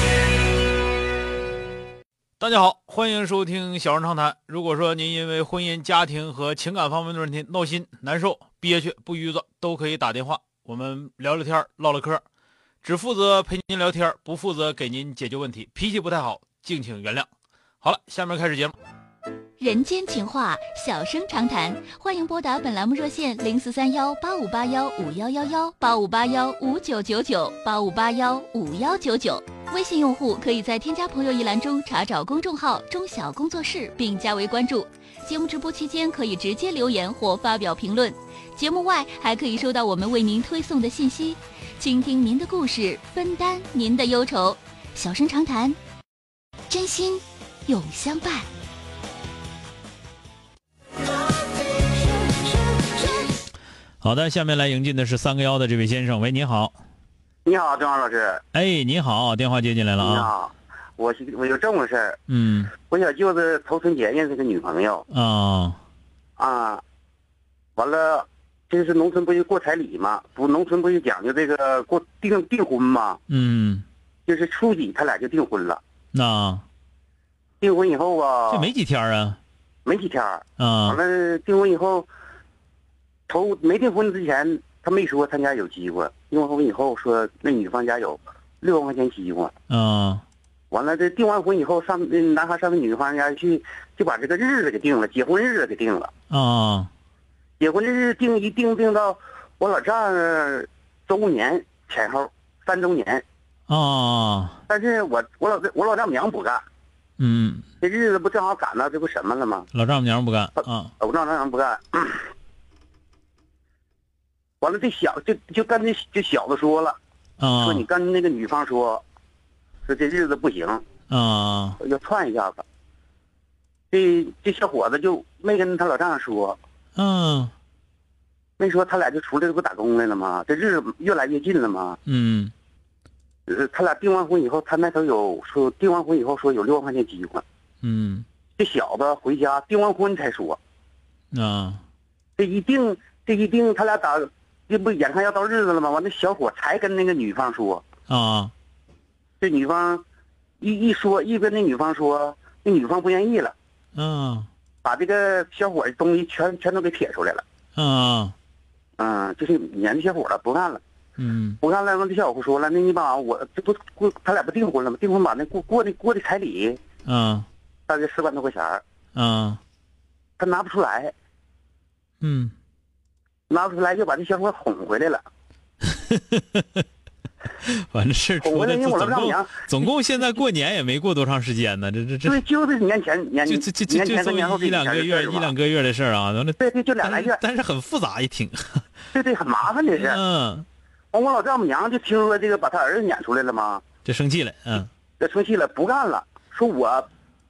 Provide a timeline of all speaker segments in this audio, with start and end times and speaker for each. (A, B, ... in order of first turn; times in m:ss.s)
0:02.4-0:12.2 A
0:12.8-0:17.3 A
0:17.8-0:18.7 A
0:19.6-0:45.8 B
0:46.7-0:48.5 B
0:54.0-0:56.8 A
0:57.4-0:58.4 C
0:58.5-1:00.3 A
1:00.0-1:02.2 C
1:02.3-1:02.7 A
1:02.9-1:05.0 C
1:05.1-1:05.8 A
1:06.4-1:06.8 C
1:07.8-1:13.2 C
1:13.3-1:13.8 A
1:14.3-1:15.8 C
1:16.1-1:16.6 A
1:17.6-1:18.7 C
1:18.5-1:19.4 A
1:19.9-1:22.1 C
1:20.6-1:21.0 A
1:23.3-1:29.5 C
1:29.7-1:30.2 A
1:30.7-1:36.1 C
1:36.3-1:36.9 A
1:37.6-1:43.2 C
1:43.7-1:44.6 A
1:44.7-1:46.6 C
1:47.2-1:47.7 A
1:47.8-1:49.7 C
1:49.7-1:50.9 A
1:51.0-1:52.3 C
1:54.6-1:57.0 C
1:57.4-1:57.8 A
1:57.6-1:59.0 C
1:59.9-2:00.8 C
2:01.1-2:01.8 A
2:01.8-2:02.6 C
2:03.9-2:06.6 C
2:07.0-2:07.5 A
2:08.6-2:12.0 C
2:12.1-2:12.5 A
2:13.5-2:17.4 C
2:17.8-2:18.2 A
2:18.6-2:20.6 C
2:21.3-2:21.8 A
2:22.4-2:27.8 C
2:28.1-2:28.5 A
2:29.4-2:30.0 C
2:30.6-2:33.5 C
2:34.0-2:34.5 A
2:34.8-2:37.4 C
2:37.8-2:38.3 A
2:39.0-2:40.8 C
2:41.2-2:41.6 A
2:41.6-2:46.8 C
2:47.1-2:47.5 A
2:47.9-2:48.8 C
2:49.2-2:49.6 A
2:50.4-2:51.1 C
2:52.2-2:52.5 A
2:53.5-2:55.2 C
2:55.9-2:56.8 A
2:57.6-3:02.4 A
2:58.4-2:59.6 C
3:02.3-3:05.5 C
3:03.5-3:08.8 A
3:06.6-3:07.4 C
3:09.1-3:10.2 C
3:10.0-3:10.7 A
3:11.1-3:13.8 C
3:14.0-3:14.9 A
3:15.2-3:17.1 C